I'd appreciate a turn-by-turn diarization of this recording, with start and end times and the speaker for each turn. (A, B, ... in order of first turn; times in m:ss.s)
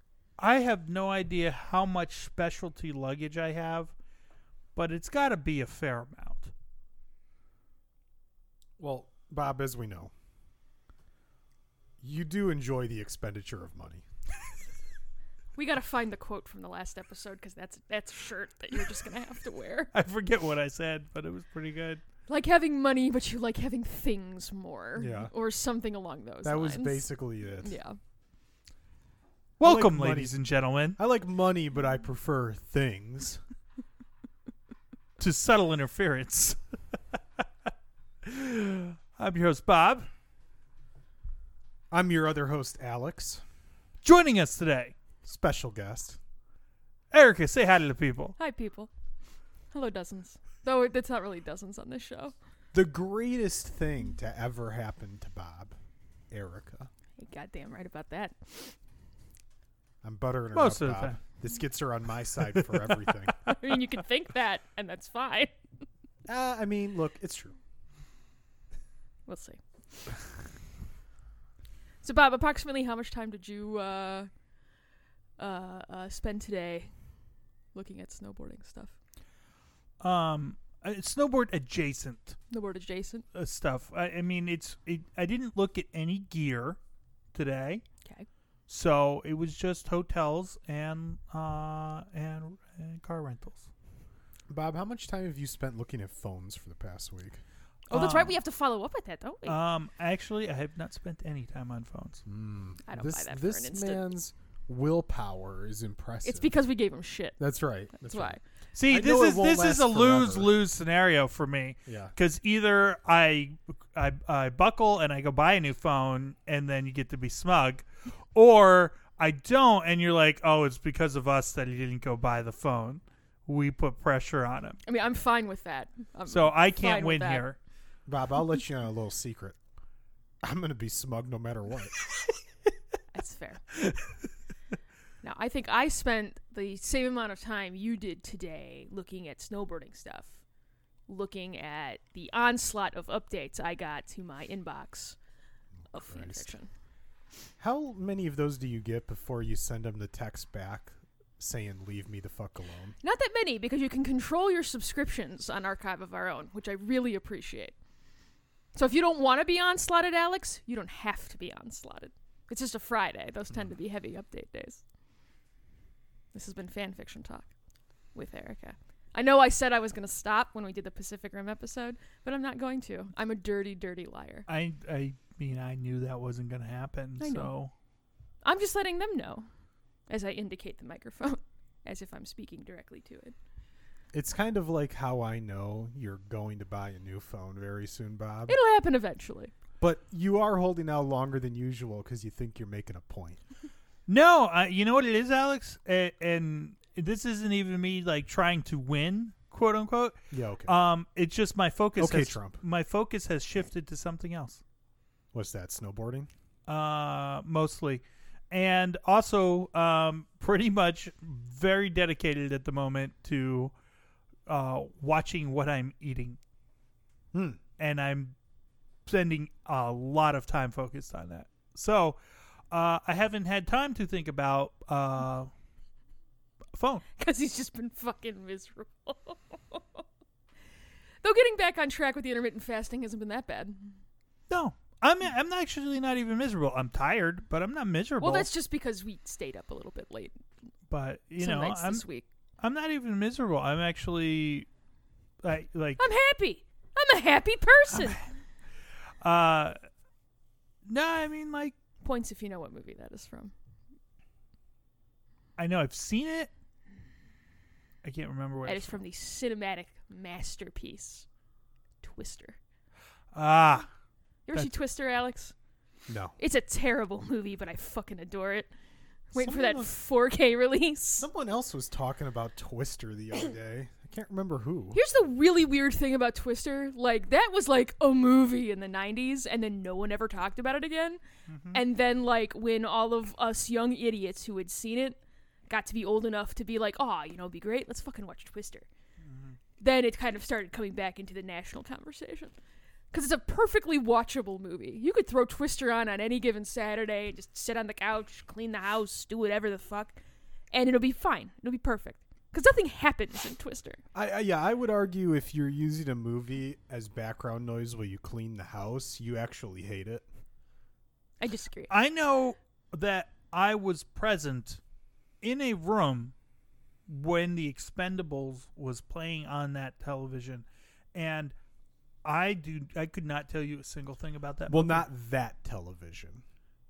0:00.4-0:03.9 A
0:04.8-0:06.5 A
0:08.8-0:10.1 B
0:12.0-0:14.0 B
0:15.6-0:19.9 C
0:19.9-0:22.0 A
0:22.3-0:27.1 C
0:25.0-0:25.3 B
0:26.4-0:27.8 B
0:27.6-0:28.0 C
0:29.6-0:31.0 A
0:29.6-0:30.4 B
0:31.0-0:33.4 B
0:35.2-0:37.2 A
0:38.2-0:40.1 A
0:41.9-0:43.4 B
0:44.0-0:44.9 A
0:45.2-0:46.2 B
0:47.1-0:48.4 A
0:48.4-0:48.9 C
0:49.7-0:52.4 C
0:52.7-0:55.8 B
0:56.3-0:56.9 B
0:57.2-0:58.8 C
1:00.0-1:03.4 B
1:00.5-1:01.2 A
1:03.4-1:05.5 C
1:06.3-1:07.6 B
1:09.3-1:10.2 C
1:12.0-1:14.3 C
1:15.4-1:16.9 C
1:17.7-1:18.9 C
1:20.0-1:22.4 A
1:22.5-1:23.2 C
1:23.3-1:26.8 A
1:27.3-1:27.8 A
1:28.7-1:33.7 A
1:34.5-1:37.4 B
1:37.9-1:39.6 C
1:37.9-1:38.4 A
1:39.4-1:42.2 A
1:42.3-1:46.5 B
1:42.9-1:44.0 C
1:46.2-1:47.4 C
1:47.4-1:50.5 B
1:48.0-1:48.4 C
1:48.7-2:04.8 A
1:51.9-1:52.1 B
2:04.9-2:07.5 C
2:06.3-2:07.6 A
2:08.1-2:09.6 B
2:10.4-2:12.0 B
2:13.1-2:13.6 C
2:15.2-2:20.4 C
2:21.1-2:25.2 C
2:25.9-2:26.7 C
2:26.1-2:26.5 B
2:27.6-2:33.0 B
2:33.0-2:37.8 C
2:38.7-2:44.8 C
2:46.3-2:47.5 C
2:48.2-2:54.5 C
2:54.5-2:57.7 A
2:57.2-2:57.5 C
2:58.4-2:59.5 C
3:00.1-3:03.4 C
3:04.1-3:08.6 B
3:08.5-3:09.5 C
3:09.8-3:13.4 B
3:14.1-3:24.6 A
3:20.3-3:20.7 B
3:22.0-3:22.6 B
3:25.3-3:26.3 B
3:26.7-3:33.7 A
3:34.5-3:36.4 A
3:37.3-3:37.6 B
3:37.8-3:38.4 A
3:39.1-3:42.2 A
3:42.7-3:45.5 A
3:46.7-3:47.0 A
3:47.2-3:50.0 C
3:51.2-3:54.0 C
3:54.5-3:58.5 A
3:58.2-4:00.3 C
4:00.9-4:02.0 A
4:01.4-4:02.3 C
4:02.6-4:04.7 A
4:05.4-4:06.0 A
4:06.0-4:08.2 C
4:07.9-4:08.2 A
4:09.2-4:09.8 A
4:10.9-4:11.7 A
4:12.0-4:13.5 C
4:15.6-4:16.5 A
4:18.0-4:19.0 A
4:18.6-4:21.3 C
4:22.0-4:22.6 C
4:23.3-4:23.9 A
4:24.5-4:25.6 C
4:26.1-4:26.4 B
4:26.4-4:28.7 C
4:29.3-4:31.3 C
4:29.4-4:29.9 B
4:31.2-4:35.0 B
4:34.9-4:41.2 C
4:41.5-4:41.8 A
4:41.7-4:45.2 C
4:45.7-4:48.9 C
4:49.2-4:49.6 A
4:49.8-4:52.6 C
4:53.1-5:00.2 C
5:00.7-5:04.0 C
5:04.1-5:10.2 B
5:11.4-5:11.9 C
5:11.9-5:14.8 A
5:15.4-5:16.3 A
5:17.1-5:21.6 A
5:22.2-5:25.0 A
5:24.7-5:26.4 B